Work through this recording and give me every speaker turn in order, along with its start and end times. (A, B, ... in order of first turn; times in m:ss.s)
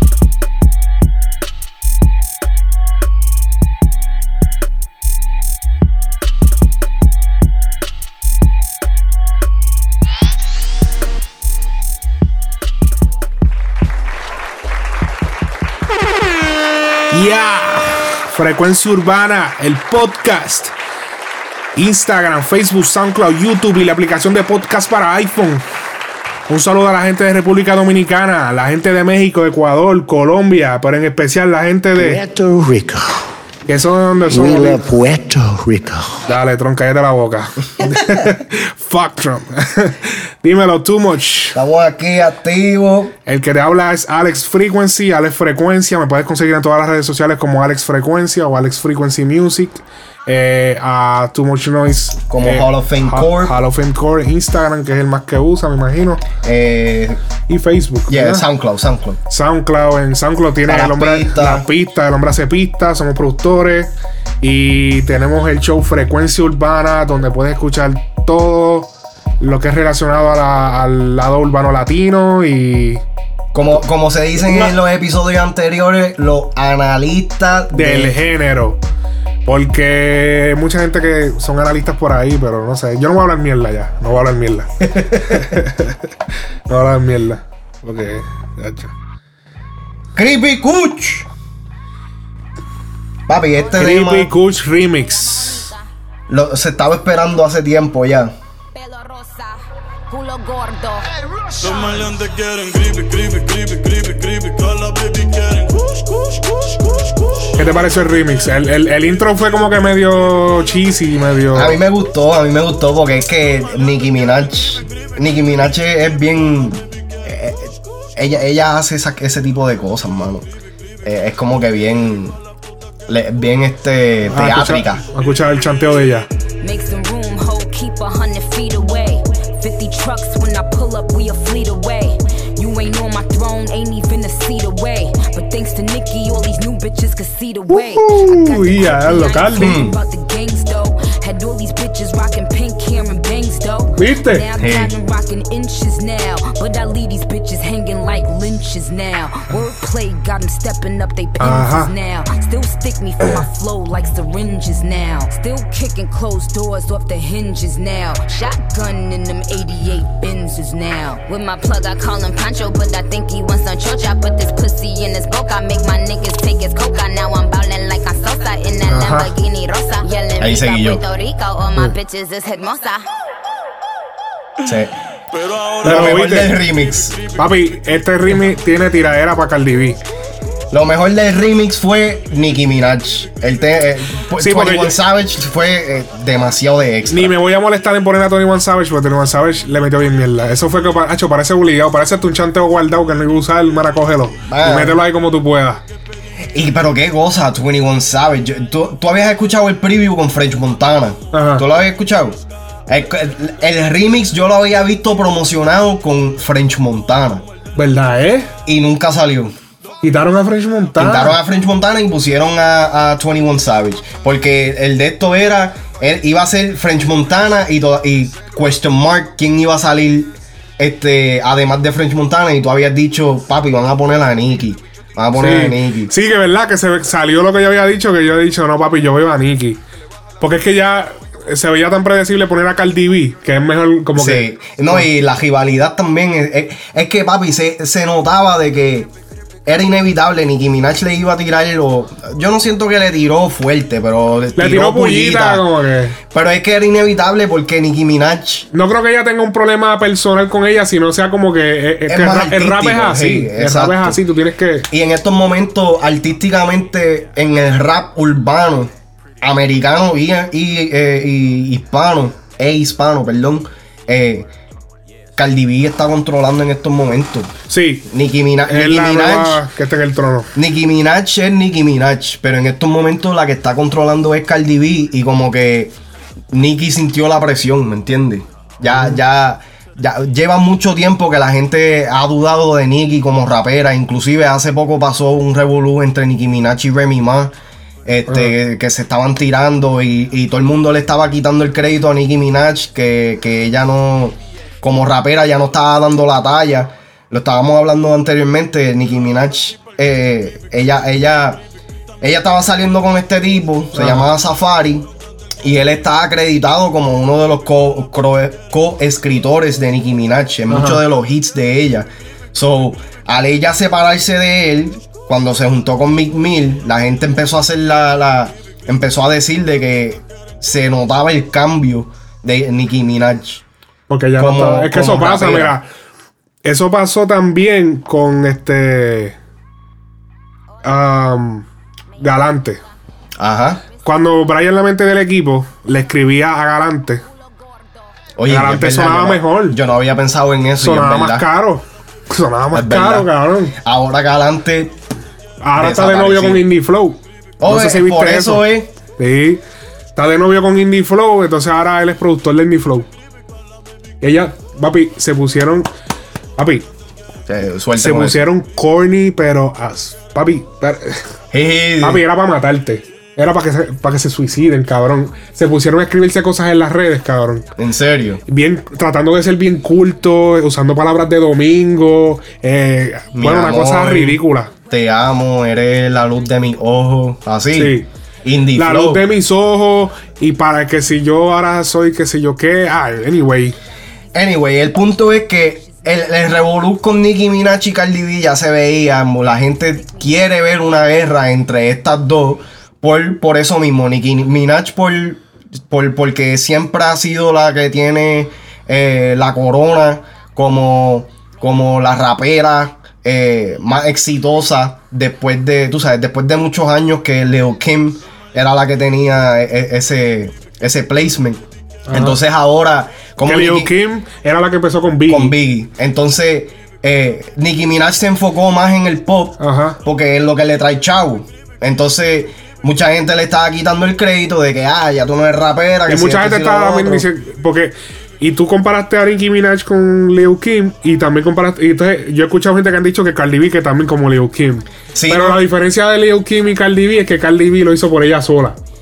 0:17.1-0:20.7 A
0:21.8-0:25.6 A
0:26.5-0:32.2 A
0:32.0-0:33.2 B
0:33.7-0:34.9 A
0:34.3-0:36.2 B
0:36.3-0:41.6 A
0:41.5-0:43.1 C
0:43.3-0:56.2 A
0:52.3-0:53.6 C
0:56.4-0:57.2 C
0:57.5-0:58.4 A
0:58.1-0:59.2 C
0:59.3-1:03.9 A
1:00.7-1:01.7 C
1:04.4-1:13.0 A
1:13.5-1:18.2 C
1:14.4-1:14.7 A
1:17.7-1:18.8 A
1:19.5-1:26.1 A
1:24.9-1:25.6 C
1:26.7-1:28.9 A
1:30.2-1:31.3 C
1:33.3-1:34.3 C
1:33.7-1:35.7 A
1:34.0-1:35.8 D
1:36.3-1:38.3 C
1:38.8-1:41.1 D
1:41.6-1:46.3 E
1:47.6-1:51.8 A
1:51.5-2:00.5 C
2:01.0-2:02.4 C
2:03.1-2:05.0 C
2:04.3-2:06.3 A
2:06.6-2:53.0 D
2:17.7-2:19.8 A
2:19.6-2:20.0 C
2:24.0-2:24.4 A
2:24.6-2:24.9 C
2:31.4-2:31.9 A
2:48.9-2:49.3 A
2:50.4-2:51.0 C
2:54.6-2:54.9 C
2:55.3-2:57.4 E
2:55.8-2:56.6 A
2:55.8-2:57.2 C
2:57.4-3:00.0 A
3:00.7-3:07.4 C
3:04.4-3:05.0 A
3:07.1-3:15.8 A
3:14.4-3:15.0 C
3:16.5-3:27.4 C
3:21.3-3:21.6 A
3:27.8-3:28.5 A
3:28.7-3:29.5 C
3:30.0-3:31.4 A
3:31.0-3:46.1 C
3:45.4-3:49.8 A
3:50.4-3:55.0 A
3:54.2-3:59.1 C
3:59.7-4:05.7 C
4:04.6-4:06.2 A
4:06.3-4:08.7 C
4:08.7-4:14.9 A
4:12.1-4:14.2 C
4:14.9-4:24.5 C
4:25.4-4:27.5 C
4:27.7-4:28.0 A
4:28.1-4:29.6 C
4:28.7-4:30.5 A
4:30.6-4:35.9 C
4:36.5-4:47.5 C
4:38.9-4:39.2 A
4:48.1-5:01.6 C
4:48.3-4:48.5 A
5:02.2-5:05.1 C
5:04.0-5:04.3 A
5:05.6-5:23.6 C
5:10.7-5:11.0 A
5:24.1-5:25.8 A
5:24.4-5:25.8 C
5:26.6-5:29.4 A
5:30.8-5:31.7 A
5:32.2-5:32.8 D
5:32.2-5:32.8 A
5:33.4-5:33.8 C
5:34.0-5:37.2 A
5:37.5-5:38.0 D
5:38.4-5:41.5 C
5:38.5-5:39.8 A
5:40.8-5:43.7 A
5:42.7-5:45.0 C
5:45.6-5:48.6 A
5:45.8-5:46.7 C
5:47.6-5:48.9 C
5:49.2-5:49.6 A
5:50.2-5:53.1 A
5:54.2-5:55.9 A
5:56.6-5:56.8 A
5:57.5-5:58.5 C
5:58.0-6:01.3 A
6:01.5-6:02.2 C
6:02.0-6:07.7 A
6:07.8-6:08.4 C
6:08.5-6:14.7 A
6:13.3-6:19.3 C
6:17.7-6:18.1 A
6:18.7-6:23.8 A
6:24.3-6:51.6 C
6:52.1-6:52.4 A
6:52.1-6:53.9 C
6:53.4-6:55.5 A
6:55.3-7:07.3 C
6:59.6-7:00.0 A
7:06.1-7:18.8 A
7:15.1-7:15.6 C